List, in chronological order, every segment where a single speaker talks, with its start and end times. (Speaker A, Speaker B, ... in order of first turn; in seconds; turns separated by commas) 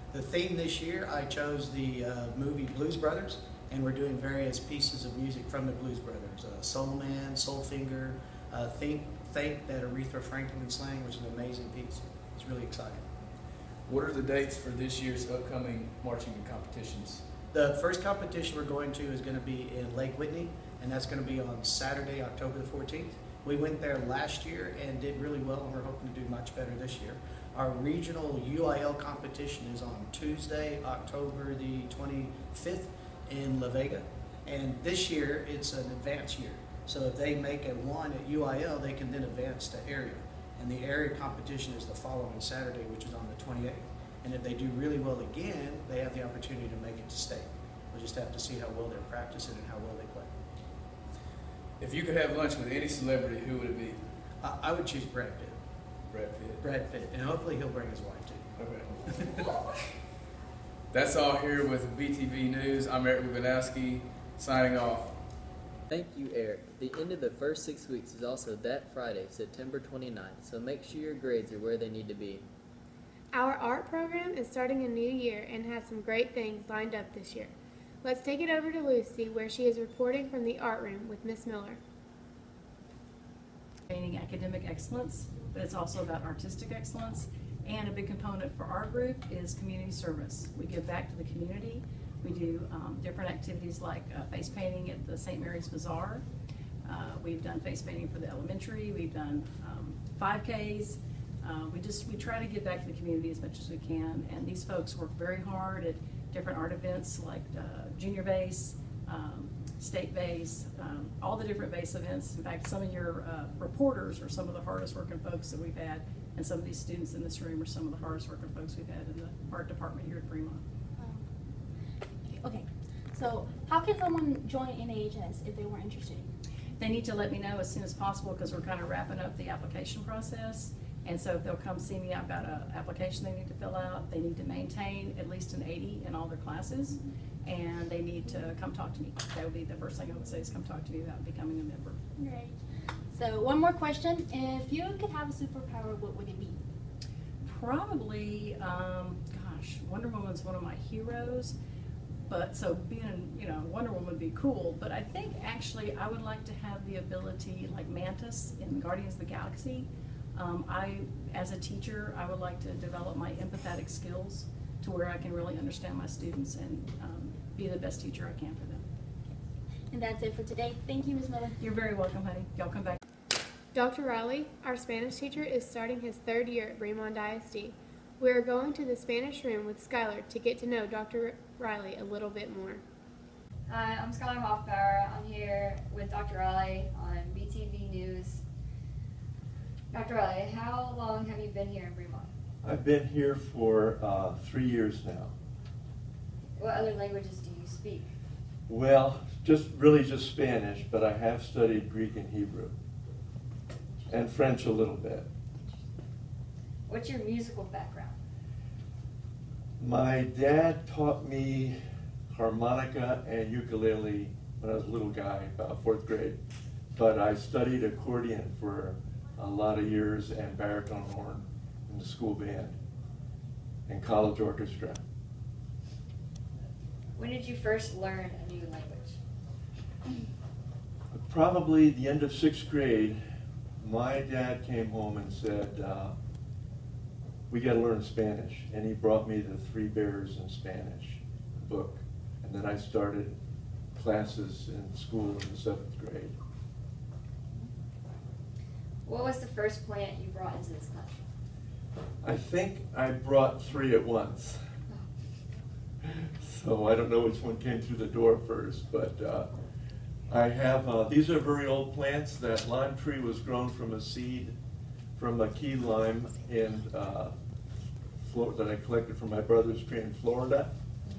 Speaker A: 0.1-13.1, Speaker B: 13.9-17.2, Speaker A: 17.5-50.3, Speaker B: 51.8-54.0, Speaker A: 54.4-55.6, Speaker B: 56.1-56.6, Speaker A: 56.6-58.5, Speaker B: 58.6-58.9, Speaker A: 59.0-59.4, Speaker B: 60.9-65.2, Speaker C: 65.9-72.5, Speaker D: 73.3-77.5, Speaker D: 78.0-81.8, Speaker E: 83.9-96.2, Speaker E: 96.9-120.6, Speaker F: 122.3-126.3, Speaker E: 126.8-142.0, Speaker F: 143.1-146.6, Speaker E: 147.4-151.6, Speaker E: 152.3-168.8, Speaker F: 169.9-171.5, Speaker E: 171.6-173.0, Speaker D: 173.7-182.8, Speaker G: 183.7-188.4, Speaker G: 189.9-192.3, Speaker H: 192.6-195.3, Speaker G: 196.6-198.1, Speaker H: 198.7-202.8, Speaker H: 204.1-205.3, Speaker G: 206.9-208.2, Speaker H: 209.8-211.8, Speaker H: 212.3-216.4, Speaker H: 216.9-222.8, Speaker H: 223.9-225.0, Speaker G: 227.2-229.2, Speaker H: 231.1-233.2, Speaker H: 233.8-236.1, Speaker H: 237.5-243.3, Speaker H: 243.9-246.3, Speaker G: 249.1-251.2, Speaker H: 252.2-254.6, Speaker H: 256.0-259.5, Speaker H: 260.3-264.6, Speaker H: 265.2-267.3, Speaker H: 268.2-270.7